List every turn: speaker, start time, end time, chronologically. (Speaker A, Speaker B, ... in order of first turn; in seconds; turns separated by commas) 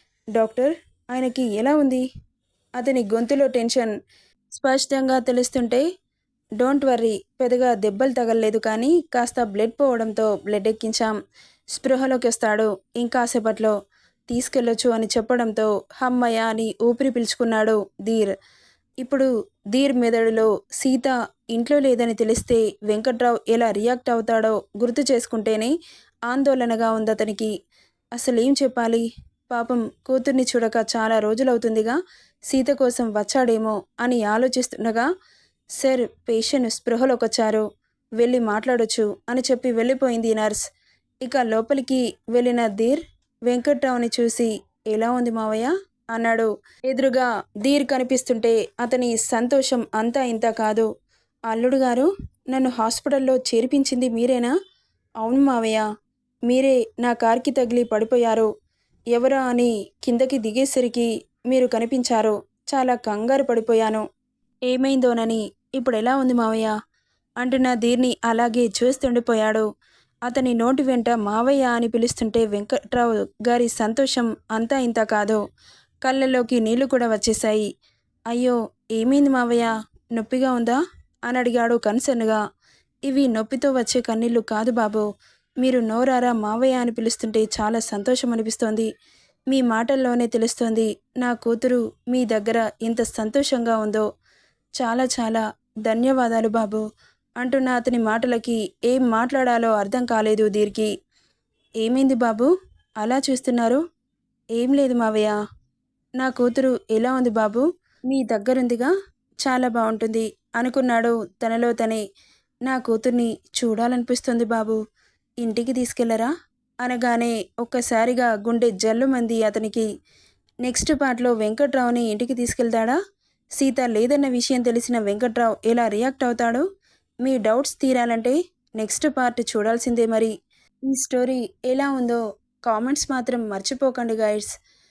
Speaker A: 0.3-2.0, Speaker A: 2.8-3.9, Speaker A: 4.5-5.8, Speaker A: 6.6-11.1, Speaker A: 11.7-13.8, Speaker A: 14.3-18.3, Speaker A: 19.0-25.7, Speaker A: 26.3-27.5, Speaker A: 28.1-32.0, Speaker A: 32.5-35.1, Speaker A: 35.8-37.6, Speaker A: 38.2-40.6, Speaker A: 41.2-50.9, Speaker A: 51.5-54.5, Speaker A: 55.2-55.8, Speaker A: 56.5-58.5, Speaker A: 59.1-64.0, Speaker A: 64.7-66.7, Speaker A: 67.4-69.7, Speaker A: 70.3-75.4, Speaker A: 76.0-77.7, Speaker A: 78.3-82.4, Speaker A: 83.1-85.1, Speaker A: 85.6-88.9, Speaker A: 89.5-94.0, Speaker A: 94.8-96.8, Speaker A: 97.4-100.9, Speaker A: 101.8-103.8, Speaker A: 104.5-105.3, Speaker A: 106.2-108.9, Speaker A: 109.4-112.0, Speaker A: 112.7-114.8, Speaker A: 115.4-116.3, Speaker A: 116.8-119.9, Speaker A: 120.6-123.0, Speaker A: 123.6-126.6, Speaker A: 127.2-130.3, Speaker A: 130.9-134.5